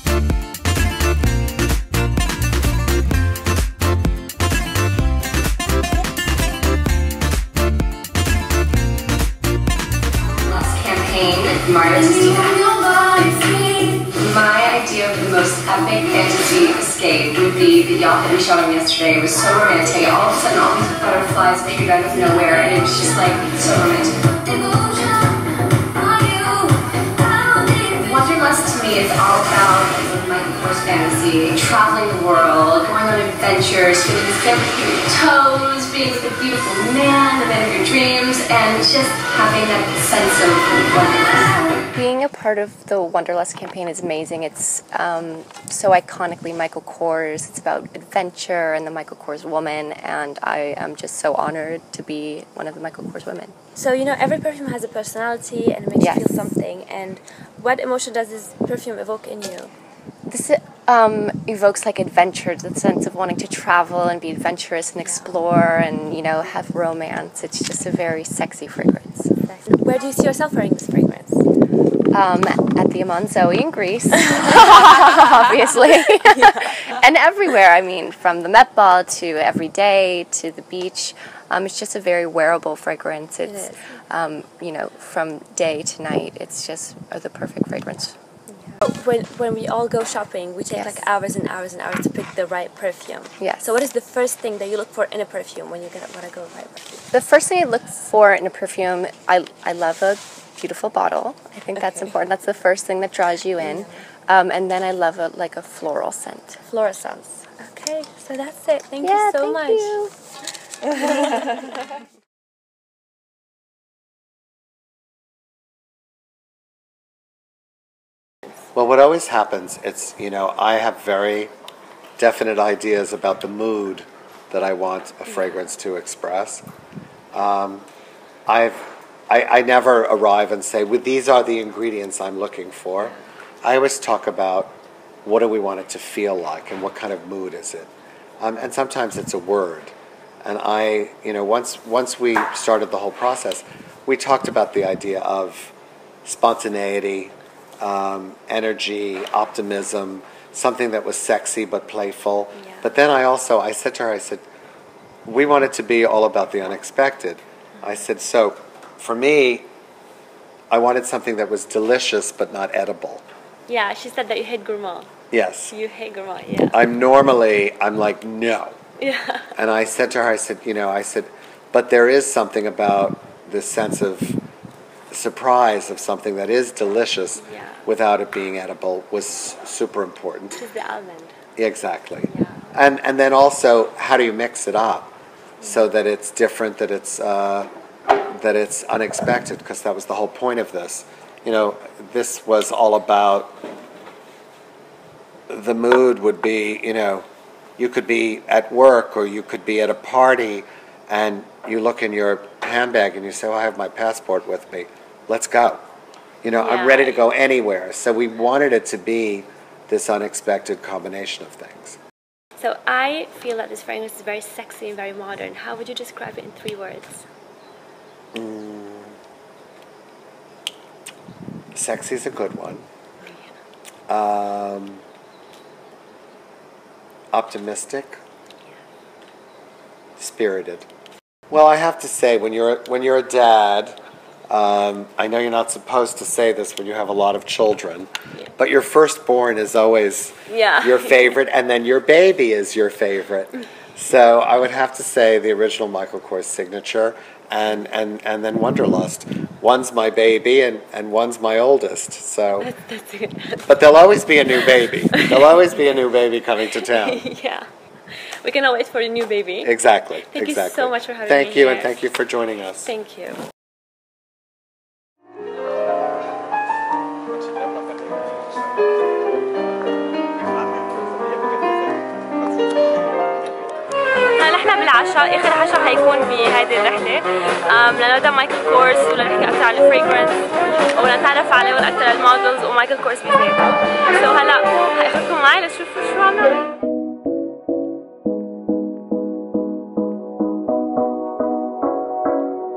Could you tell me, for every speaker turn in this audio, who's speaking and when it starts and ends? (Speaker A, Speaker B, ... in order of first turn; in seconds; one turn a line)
Speaker A: 10.2-41.8
Speaker B: 41.9-53.5
Speaker C: 53.7-59.7
Speaker B: 56.0-56.4
Speaker B: 60.3-69.3
Speaker C: 65.0-65.3
Speaker C: 69.4-71.5
Speaker B: 72.1-88.2
Speaker C: 83.4-84.0
Speaker C: 88.6-97.0
Speaker B: 90.7-91.0
Speaker B: 93.4-93.7
Speaker B: 97.1-106.6
Speaker C: 103.6-103.8
Speaker C: 106.7-110.0
Speaker B: 109.0-110.1
Speaker C: 110.8-111.7
Speaker D: 118.7-121.5
Speaker D: 122.2-126.6
Speaker D: 127.3-127.8
Speaker D: 128.5-137.9
Speaker D: 138.4-139.9
Speaker D: 140.4-145.7
Speaker D: 146.2-154.4
Speaker C: 152.5-152.9
Speaker D: 155.2-159.7
Speaker D: 160.7-163.2
Speaker C: 163.7-165.1
Speaker D: 165.3-165.7
Speaker C: 165.7-166.8
Speaker D: 166.7-168.7
Speaker C: 169.0-169.5
Speaker D: 169.6-174.4
Speaker D: 175.1-180.6
Speaker C: 177.4-177.8
Speaker C: 180.6-181.3
Speaker D: 181.6-187.7
Speaker C: 182.3-182.6
Speaker C: 185.6-185.8
Speaker D: 188.3-193.6
Speaker D: 195.5-197.2
Speaker D: 197.8-205.8
Speaker D: 206.4-212.0
Speaker C: 206.6-207.2
Speaker C: 212.6-217.2
Speaker D: 218.3-219.2
Speaker D: 221.7-222.8
Speaker D: 224.1-225.0
Speaker D: 227.3-228.2
Speaker D: 230.2-230.9
Speaker D: 231.5-234.0
Speaker D: 234.5-252.7
Speaker C: 240.5-241.3
Speaker C: 252.6-253.8
Speaker D: 253.7-257.3
Speaker C: 255.1-255.6
Speaker C: 256.7-257.6
Speaker C: 258.4-259.7
Speaker D: 259.6-262.9
Speaker C: 260.3-262.0
Speaker C: 262.8-263.4
Speaker C: 274.3-286.7